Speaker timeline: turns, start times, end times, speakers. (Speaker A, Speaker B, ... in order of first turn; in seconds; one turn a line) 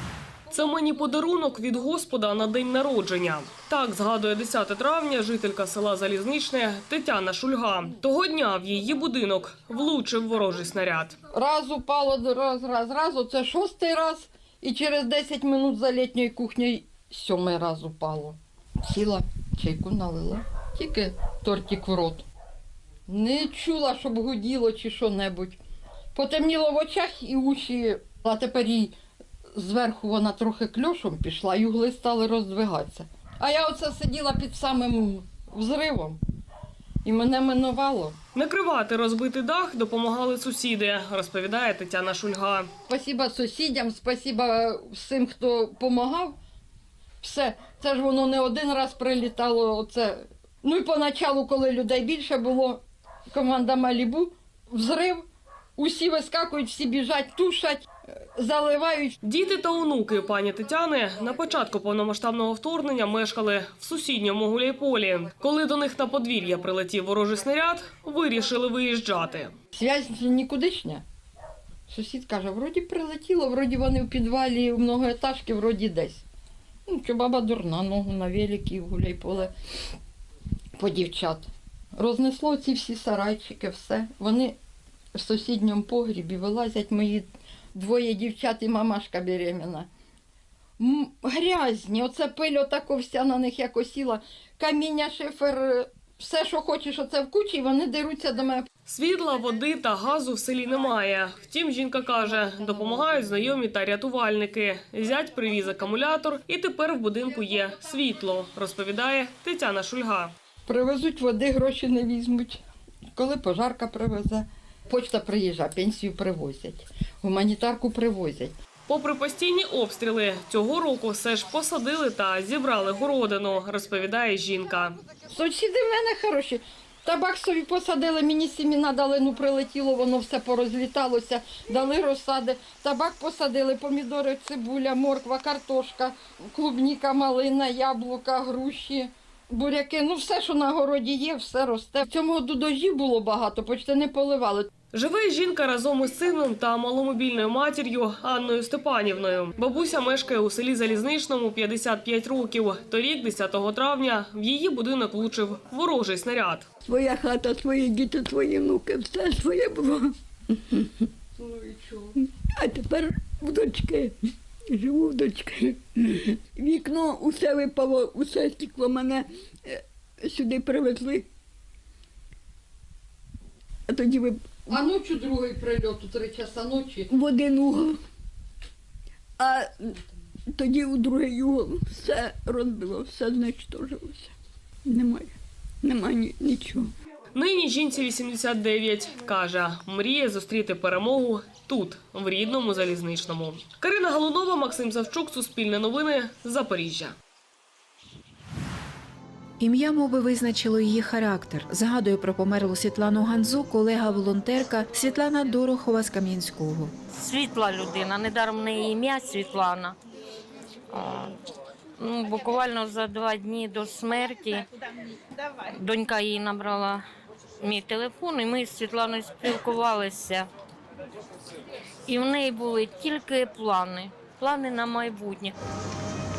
Speaker A: 0.5-11.2
Speaker B: 11.3-22.3
Speaker B: 23.1-25.6
Speaker B: 26.1-29.0
Speaker B: 29.5-36.2
Speaker B: 37.0-38.2
Speaker A: 38.4-42.7
Speaker B: 42.9-46.4
Speaker B: 47.2-52.8
Speaker B: 53.3-55.3
Speaker B: 55.8-57.9
Speaker B: 58.4-59.2
Speaker A: 59.2-69.5
Speaker B: 69.8-71.0
Speaker B: 71.9-76.2
Speaker B: 76.9-79.5
Speaker B: 80.8-84.6
Speaker B: 85.1-89.9
Speaker B: 90.8-98.7
Speaker A: 98.9-110.3
Speaker B: 102.7-103.1
Speaker B: 110.7-112.6
Speaker B: 113.2-118.5
Speaker A: 118.9-125.0
Speaker B: 125.3-144.7
Speaker A: 144.9-156.7
Speaker C: 156.9-160.1
Speaker B: 161.4-162.0
Speaker C: 162.6-164.1
Speaker C: 164.8-165.8
Speaker C: 166.6-169.3
Speaker C: 170.3-171.3
Speaker C: 173.9-174.7
Speaker B: 174.7-177.1
Speaker C: 177.2-178.0
Speaker C: 179.4-179.7
Speaker C: 180.6-184.3
Speaker C: 184.9-185.3
Speaker C: 185.9-186.9
Speaker A: 187.3-197.2
Speaker D: 199.6-206.9
Speaker E: 207.1-209.9
Speaker E: 210.9-211.3
Speaker E: 212.0-214.6
Speaker E: 215.7-217.0
Speaker E: 217.6-220.5
Speaker E: 222.1-225.5